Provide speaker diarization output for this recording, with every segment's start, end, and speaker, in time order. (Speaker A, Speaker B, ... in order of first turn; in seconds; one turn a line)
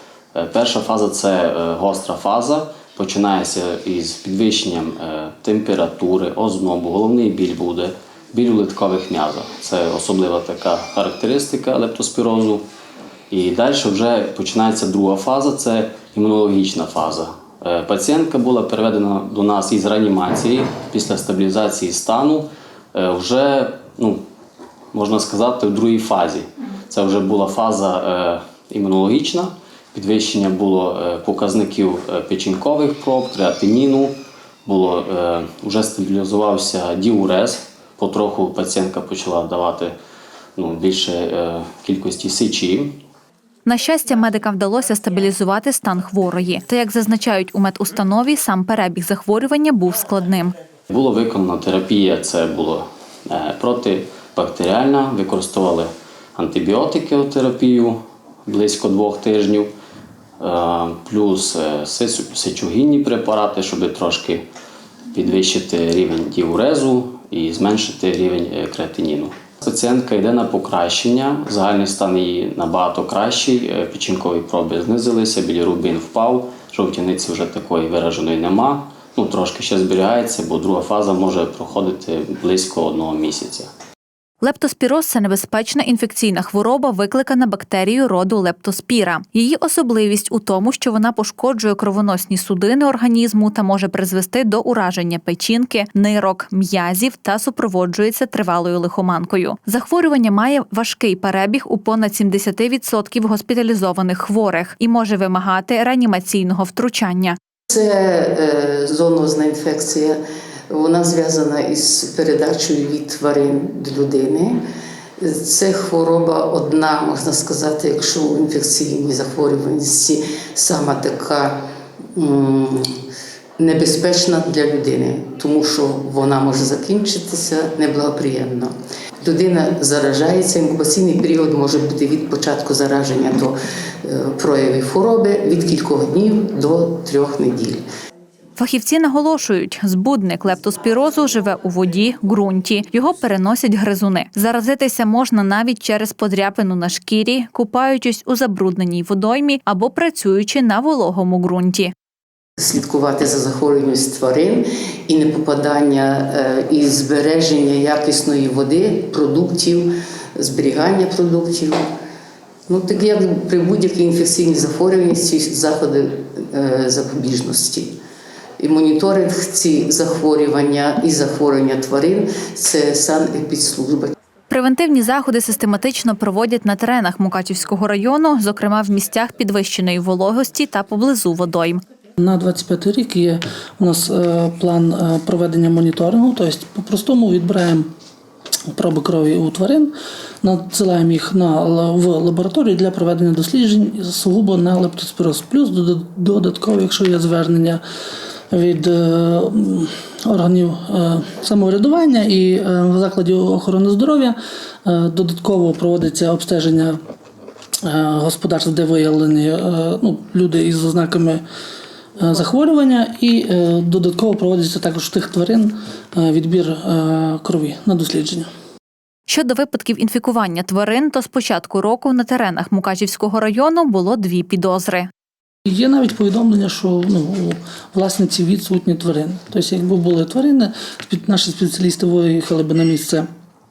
Speaker A: 0.3-12.6
Speaker A: 13.3-24.2
Speaker A: 24.9-34.1
Speaker A: 34.7-39.9
Speaker A: 40.6-43.0
Speaker B: 43.7-50.5
Speaker A: 50.9-59.7
Speaker A: 60.4-64.5
Speaker A: 65.1-83.7
Speaker B: 84.4-107.4
Speaker C: 107.7-114.6
Speaker C: 115.2-121.6
Speaker C: 122.2-123.0
Speaker C: 123.6-137.8
Speaker B: 138.6-151.9
Speaker C: 152.6-161.8
Speaker C: 162.7-168.0
Speaker C: 168.6-174.1
Speaker B: 174.5-181.8
Speaker D: 182.2-187.9
Speaker D: 188.7-197.8
Speaker D: 198.5-207.0
Speaker D: 207.8-211.4
Speaker D: 212.2-218.5
Speaker B: 219.3-225.1
Speaker D: 225.7-233.3